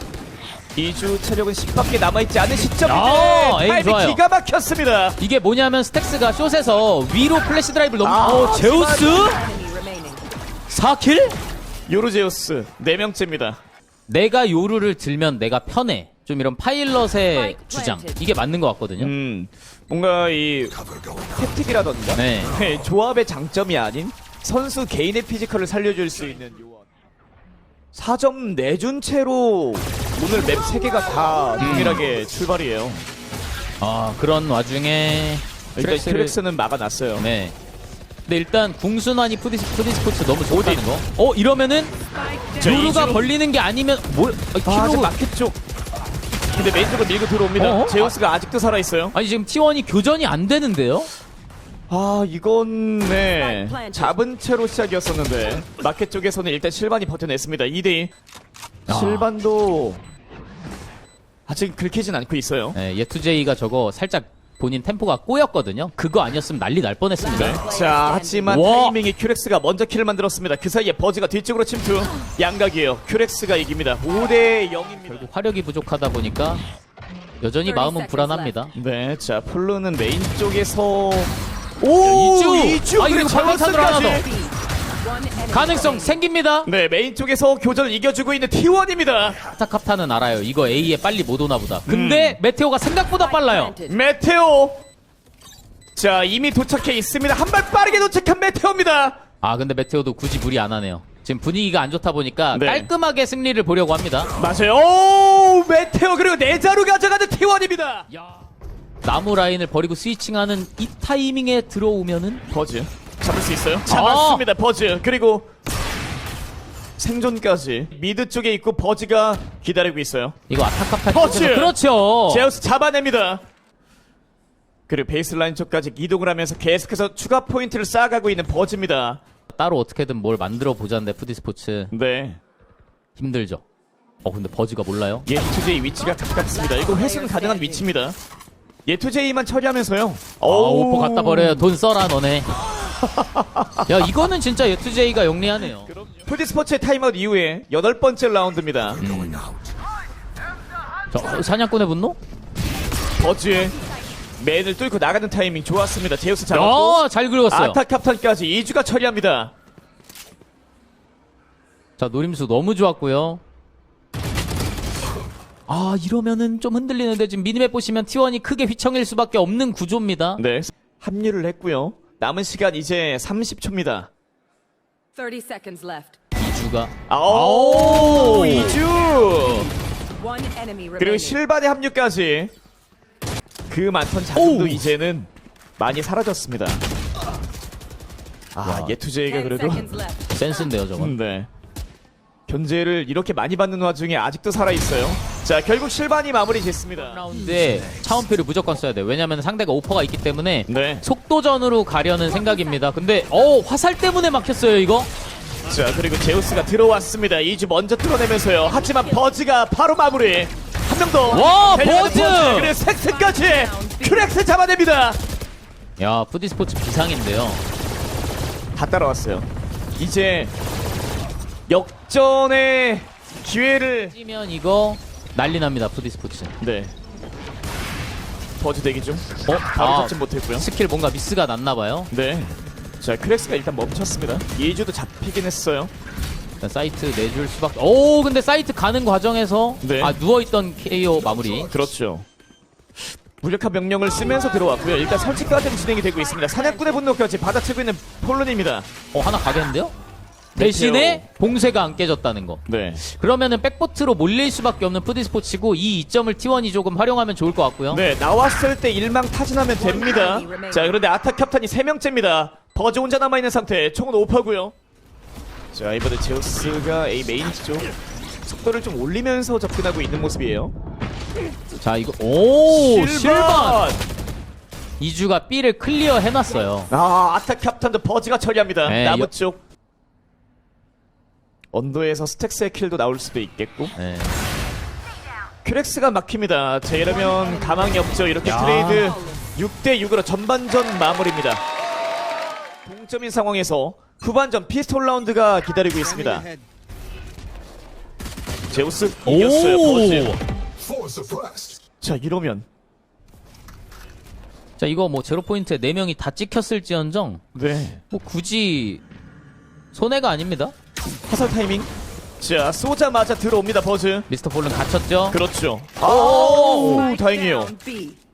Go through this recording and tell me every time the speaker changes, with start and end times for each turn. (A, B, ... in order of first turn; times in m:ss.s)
0:00.8-0:05.2 A
0:02.8-0:04.2 B
0:05.2-0:09.4 B
0:08.0-0:09.4 A
0:08.5-0:10.2 C
0:10.7-0:11.3 B
0:11.9-0:13.6 A
0:14.1-0:19.1 B
0:17.3-0:18.2 C
0:19.0-0:20.8 A
0:21.3-0:26.9 A
0:22.2-0:22.5 B
0:27.9-0:33.1 A
0:31.6-0:32.0 B
0:33.8-0:36.4 B
0:35.8-0:37.3 A
0:37.2-0:37.6 B
0:38.3-0:41.9 B
0:40.5-0:40.8 A
0:42.1-0:43.2 C
0:42.6-0:43.3 A
0:42.6-0:45.1 B
0:44.6-0:45.6 A
0:46.5-0:49.2 A
0:47.6-0:48.1 B
0:49.1-0:51.1 B
0:51.9-0:58.1 A
0:53.4-0:54.2 C
0:58.9-0:59.3 B
0:58.9-1:00.0 A
1:01.5-1:02.8 A
1:02.8-1:07.6 B
1:07.2-1:08.6 C
1:07.3-1:15.3 A
1:08.5-1:09.0 B
1:15.1-1:16.6 B
1:17.4-1:18.7 B
1:17.6-1:18.7 C
1:18.8-1:24.3 A
1:22.0-1:24.2 B
1:23.9-1:26.2 C
1:25.5-1:26.7 B
1:26.6-1:29.4 A
1:29.5-1:33.7 B
1:31.9-1:32.4 A
1:33.2-1:34.0 C
1:33.8-1:34.8 A
1:36.0-1:39.2 A
1:39.4-1:44.3 B
1:42.5-1:42.9 A
1:44.4-1:48.1 A
1:48.1-1:48.4 B
1:49.0-1:52.4 B
1:52.5-1:55.5 A
1:53.9-1:54.5 B
1:57.0-2:00.4 A
2:00.5-2:02.5 B
2:01.1-2:03.4 A
2:04.9-2:09.2 A
2:09.5-2:11.9 B
2:11.9-2:12.4 A
2:13.2-2:13.6 B
2:14.2-2:15.3 B
2:15.3-2:18.2 A
2:16.4-2:17.9 C
2:18.9-2:21.7 A
2:20.4-2:22.5 B
2:23.0-2:23.9 A
2:23.8-2:25.9 B
2:25.9-2:29.0 A
2:29.0-2:29.5 B
2:31.1-2:32.2 B
2:33.2-2:33.8 A
2:34.4-2:39.5 A
2:36.5-2:37.8 B
2:42.0-2:43.4 B
2:45.7-2:50.4 B
2:50.4-2:54.1 A
2:55.2-2:56.2 C
2:56.4-2:58.8 B
2:57.1-2:59.7 A
2:58.0-3:01.4 C
3:01.0-3:02.5 A
3:03.7-3:06.8 A
3:04.4-3:04.9 B
3:08.5-3:09.9 A
3:08.6-3:09.0 B
3:09.2-3:10.6 C
3:10.3-3:11.1 B
3:11.0-3:11.5 A
3:12.5-3:17.2 A
3:17.0-3:25.1 B
3:20.7-3:21.0 A
3:25.7-3:35.2 A
3:28.8-3:29.2 C
3:31.3-3:32.7 B
3:31.3-3:34.4 C
3:36.0-3:37.6 B
3:38.8-3:40.5 A
3:41.7-3:44.1 A
3:44.1-3:46.6 B
3:46.6-3:47.0 A
3:48.6-3:50.7 A
3:49.5-3:52.1 B
3:52.1-3:55.9 A
3:56.6-4:01.7 B
3:59.8-4:00.2 A
4:01.7-4:02.3 A
4:03.4-4:08.9 A
4:06.2-4:07.0 C
4:09.1-4:09.9 B
4:10.6-4:11.2 A
4:10.6-4:18.0 B
4:12.7-4:13.0 A
4:17.9-4:24.7 A
4:19.8-4:21.0 C
4:25.7-4:27.9 A
4:28.4-4:30.7 A
4:31.8-4:33.9 B
4:32.7-4:34.0 A
4:35.0-4:36.9 B
4:36.9-4:39.6 A
4:38.9-4:39.3 B
4:41.7-4:43.9 A
4:44.0-4:44.4 B
4:45.6-4:51.6 A
4:47.1-4:49.5 C
4:48.4-4:49.2 B
4:52.8-4:56.5 A
4:58.7-5:00.3 A
4:59.2-5:00.4 B
5:02.0-5:02.7 A
5:04.8-5:07.4 B
5:07.5-5:08.0 A
5:08.1-5:09.0 B
5:09.9-5:10.7 B
5:11.3-5:14.3 A
5:14.3-5:15.4 B
5:15.3-5:17.7 A
5:16.0-5:17.1 B
5:16.0-5:18.2 C